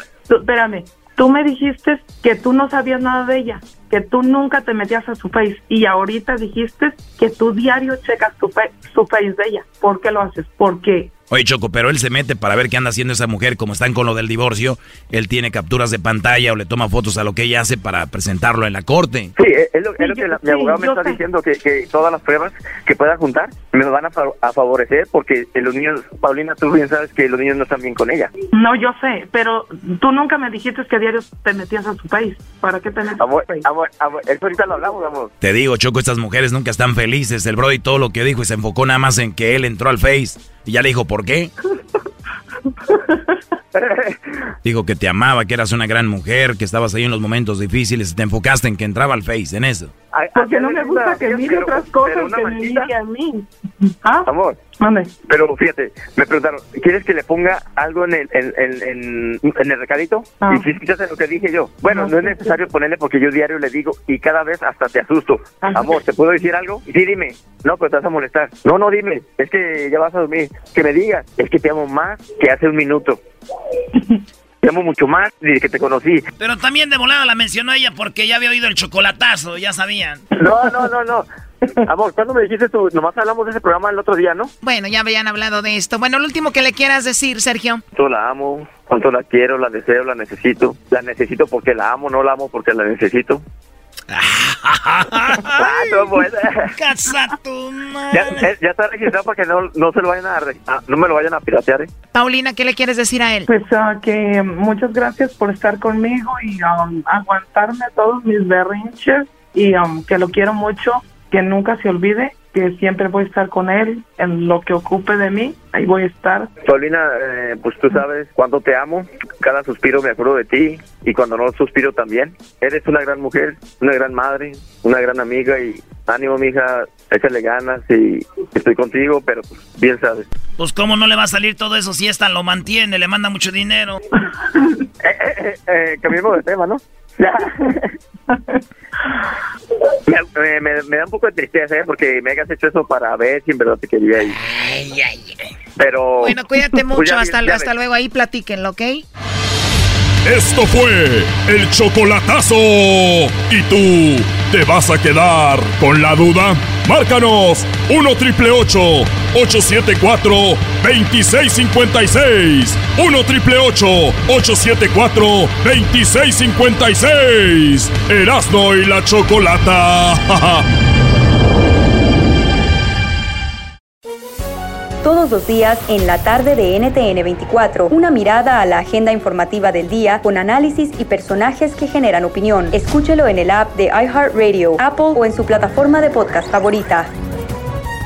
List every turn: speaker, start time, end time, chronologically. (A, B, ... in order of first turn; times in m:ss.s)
0:00.3-0:11.1 A
0:11.3-0:19.3 B
0:19.4-0:28.3 C
0:20.0-0:21.2 A
0:28.5-0:33.6 A
0:33.2-0:35.3 C
0:35.4-0:41.5 B
0:42.9-0:43.2 A
0:43.7-0:44.3 C
0:44.6-0:49.9 B
0:50.1-0:52.9 C
0:50.4-0:53.5 A
0:54.3-0:54.6 C
0:54.8-0:55.1 A
0:55.2-1:13.2 C
1:00.4-1:00.7 A
1:01.9-1:02.6 A
1:05.6-1:06.0 A
1:14.6-1:16.2 C
1:18.8-1:19.1 D
1:20.3-1:21.2 C
1:21.8-1:24.5 C
1:24.6-1:27.8 E
1:27.9-1:33.4 C
1:35.5-1:36.7 C
1:38.1-1:41.9 C
1:42.1-1:43.5 E
1:43.5-1:56.5 A
1:56.6-2:10.3 C
2:11.3-2:13.3 D
2:15.0-2:17.9 C
2:20.1-2:24.4 C
2:25.8-2:26.4 C
2:26.2-2:29.0 E
2:26.9-2:27.7 C
2:30.2-2:50.6 F
2:55.0-3:07.1 G